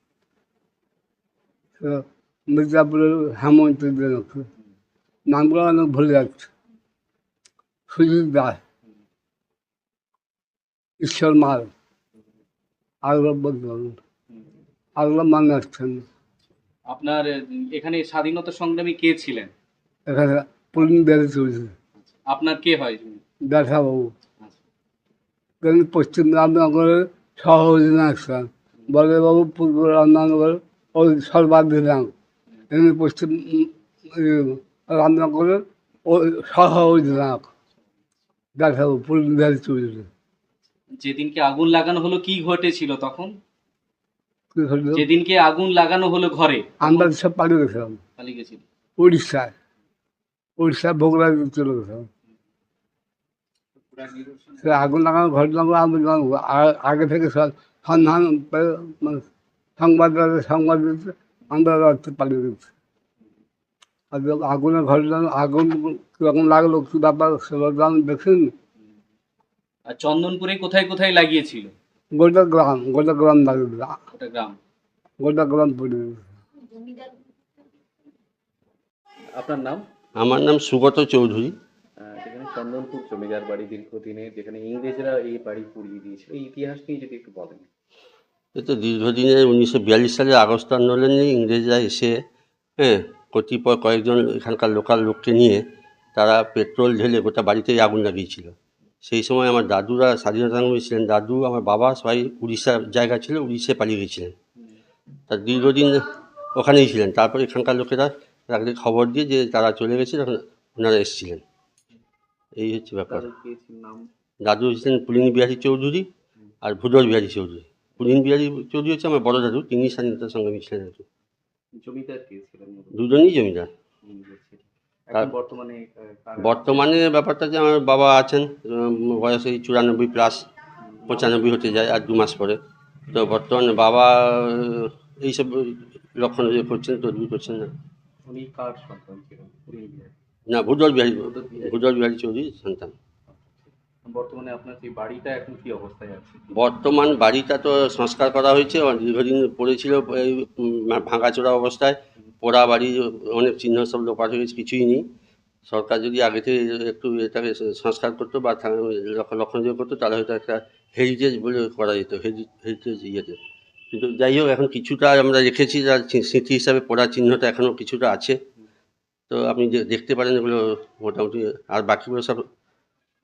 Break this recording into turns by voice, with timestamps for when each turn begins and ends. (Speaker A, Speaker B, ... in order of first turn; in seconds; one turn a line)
Speaker A: 1.8-4.5
Speaker A: 5.3-6.5
Speaker A: 7.9-8.6
Speaker A: 11.0-11.7
Speaker A: 13.0-14.0
Speaker A: 15.0-16.0
Speaker B: 16.9-19.5
Speaker A: 20.1-21.7
Speaker B: 22.3-23.2
Speaker A: 23.4-24.1
Speaker A: 25.6-32.1
Speaker A: 32.7-37.5
Speaker A: 38.6-40.1
Speaker B: 40.9-43.4
Speaker A: 44.5-45.0
Speaker B: 44.9-47.1
Speaker A: 46.8-48.0
Speaker B: 48.2-48.6
Speaker A: 49.0-49.5
Speaker A: 50.6-52.1
Speaker B: 54.0-54.7
Speaker A: 54.6-59.2
Speaker A: 59.8-62.7
Speaker A: 64.1-68.5
Speaker B: 69.9-71.7
Speaker A: 72.1-74.0
Speaker B: 74.1-74.6
Speaker A: 75.2-76.2
Speaker B: 79.4-79.8
Speaker C: 80.2-81.5
Speaker B: 82.0-87.7
Speaker C: 88.5-92.2
Speaker C: 92.8-95.6
Speaker C: 96.2-104.3
Speaker C: 105.3-111.4
Speaker C: 112.6-113.2
Speaker B: 113.1-114.1
Speaker C: 114.4-116.1
Speaker C: 116.6-121.0
Speaker B: 121.8-123.2
Speaker C: 122.9-123.7
Speaker B: 124.0-126.9
Speaker C: 126.4-130.5
Speaker B: 131.0-131.3
Speaker C: 131.1-132.6
Speaker C: 133.1-137.7
Speaker B: 138.3-140.1
Speaker C: 140.5-142.9
Speaker B: 141.2-141.7
Speaker B: 144.1-146.5
Speaker C: 146.6-155.1
Speaker C: 155.7-163.4
Speaker C: 163.9-168.4
Speaker C: 169.3-172.4